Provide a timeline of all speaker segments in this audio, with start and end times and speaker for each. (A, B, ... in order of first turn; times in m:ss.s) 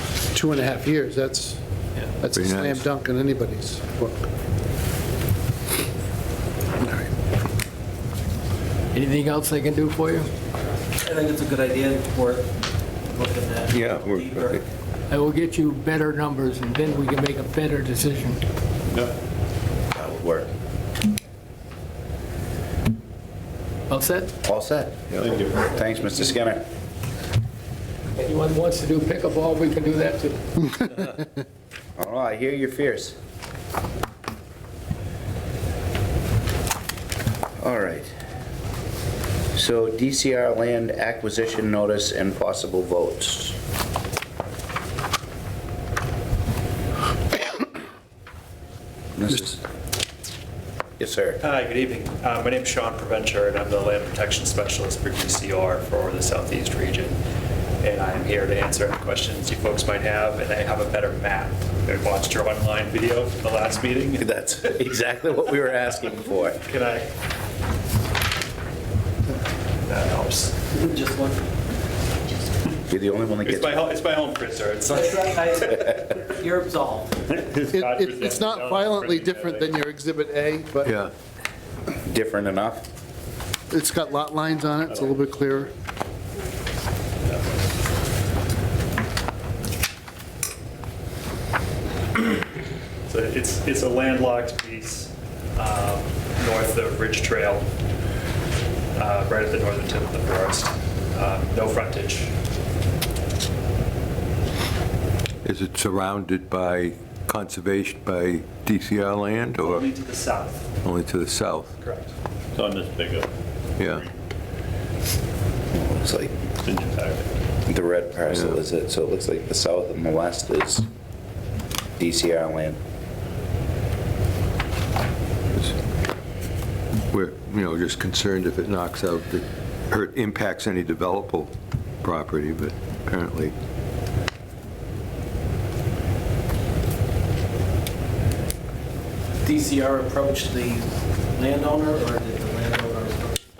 0:00.3-0:01.6 A
0:02.2-0:04.3 A
0:02.3-0:02.8 B
0:06.8-0:07.1 A
0:08.9-0:10.3 C
0:11.0-0:12.5 D
0:13.1-0:14.6 D
0:13.7-0:14.6 B
0:15.1-0:18.4 C
0:19.9-0:20.5 E
0:23.9-0:24.3 C
0:24.4-0:26.6 E
0:25.2-0:25.7 F
0:28.2-0:30.5 C
0:32.0-0:33.2 E
0:37.6-0:38.1 E
0:39.5-0:43.6 E
0:49.2-0:49.6 E
0:51.0-0:51.4 E
0:51.4-0:57.2 G
0:57.8-1:04.3 G
1:04.2-1:06.6 E
1:06.6-1:07.1 G
1:09.8-1:10.6 G
1:10.7-1:11.5 D
1:12.9-1:13.7 E
1:13.4-1:15.8 G
1:14.9-1:15.7 D
1:16.4-1:17.1 D
1:17.3-1:19.7 G
1:17.7-1:21.0 A
1:20.8-1:21.1 B
1:22.0-1:22.8 E
1:23.7-1:25.7 A
1:33.1-1:37.7 G
1:38.9-1:42.3 G
1:45.4-1:49.9 B
1:49.6-1:50.7 G
1:50.8-1:51.7 B
1:51.8-1:52.1 G
1:52.5-1:54.1 F
1:53.8-1:54.0 B
1:55.7-1:56.3 E
1:56.6-1:57.4 F
1:57.6-2:00.8 E
2:02.0-2:02.8 E
2:07.1-2:13.5 B
2:19.4-2:23.4 D